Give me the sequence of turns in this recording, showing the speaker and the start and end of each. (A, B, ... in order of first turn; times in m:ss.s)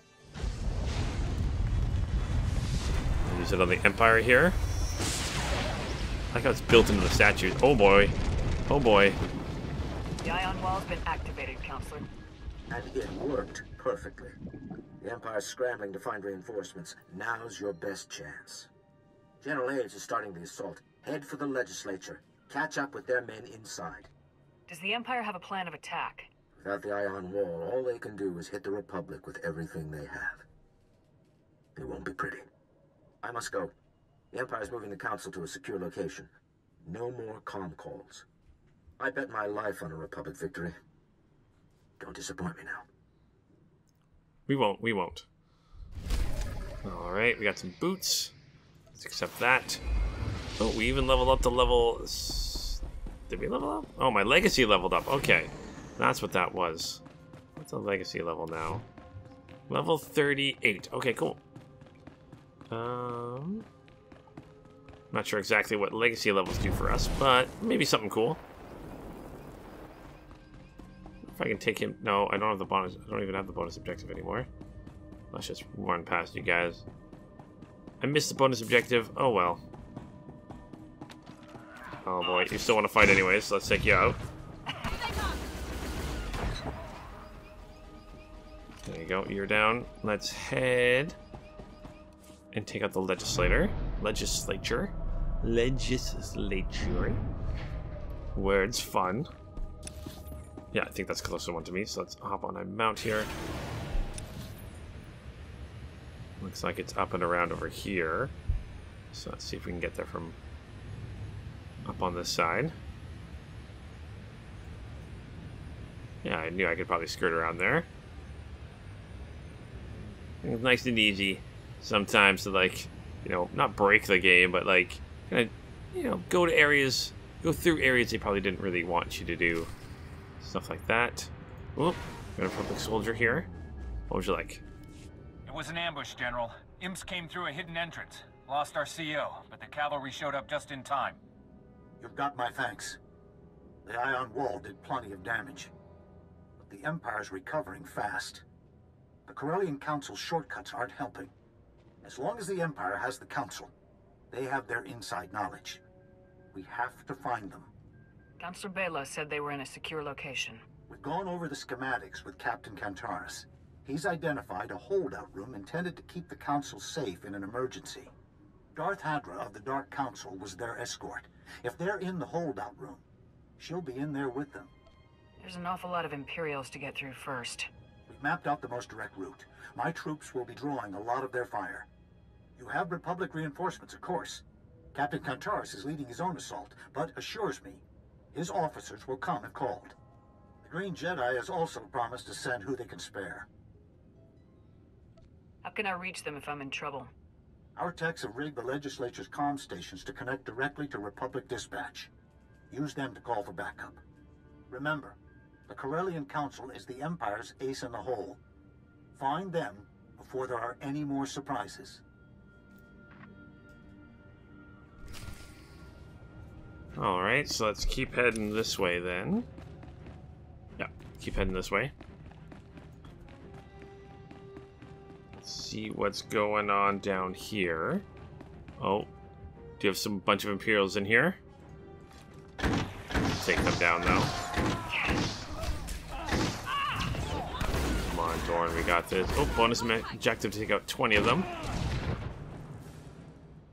0:03.2-0:04.6 A
0:06.3-0:08.1 A
0:08.7-0:09.2 A
0:10.2-0:12.1 B
0:12.7-0:14.4 C
0:15.0-0:18.7 C
0:19.4-0:24.1 C
0:24.7-0:26.3 B
0:26.6-0:30.4 C
0:31.8-0:32.5 C
0:33.2-0:33.7 C
0:34.3-0:36.3 C
0:36.8-0:38.2 C
0:39.0-0:40.8 C
0:42.0-0:42.9 C
0:44.5-0:45.3 A
0:46.8-0:48.3 A
0:48.9-0:49.8 A
0:50.6-0:57.0 A
0:57.6-0:58.9 A
0:59.7-1:01.4 A
1:02.7-1:03.7 A
1:05.1-1:08.4 A
1:11.3-1:14.5 A
1:15.3-1:16.8 A
1:18.0-1:19.6 A
1:22.0-1:24.2 A
1:28.9-1:31.2 A
1:32.5-1:37.2 A
1:38.4-1:39.3 A
1:40.7-1:43.3 A
1:46.4-1:48.3 A
1:49.1-1:50.4 A
1:51.8-1:52.8 A
1:56.2-1:57.9 A
2:00.4-2:09.7 A
2:10.4-2:13.5 A
2:14.1-2:14.6 A
2:15.5-2:21.2 D
2:22.0-2:23.0 E
2:23.8-2:25.7 E
2:26.6-2:28.4 E
2:29.3-2:31.3 E
2:32.0-2:33.7 E
2:34.3-2:35.8 E
2:36.5-2:37.7 E
2:38.4-2:40.6 B
2:40.9-2:48.1 E
2:48.8-2:53.0 E
2:53.6-2:54.7 E
2:55.4-2:57.7 B
2:58.1-3:01.9 E
3:02.6-3:07.8 E
3:08.3-3:10.0 E
3:10.6-3:13.5 E
3:15.6-3:17.1 B
3:17.8-3:22.1 E
3:22.7-3:24.0 E
3:24.7-3:25.2 E
3:25.7-3:28.4 E
3:29.2-3:32.0 E
3:37.0-3:39.5 A
3:40.8-3:41.9 A
3:45.4-3:48.1 A
3:48.8-3:49.1 A
3:49.8-3:51.4 A
3:53.4-3:54.3 A
3:54.9-3:55.2 B
3:57.9-4:01.5 A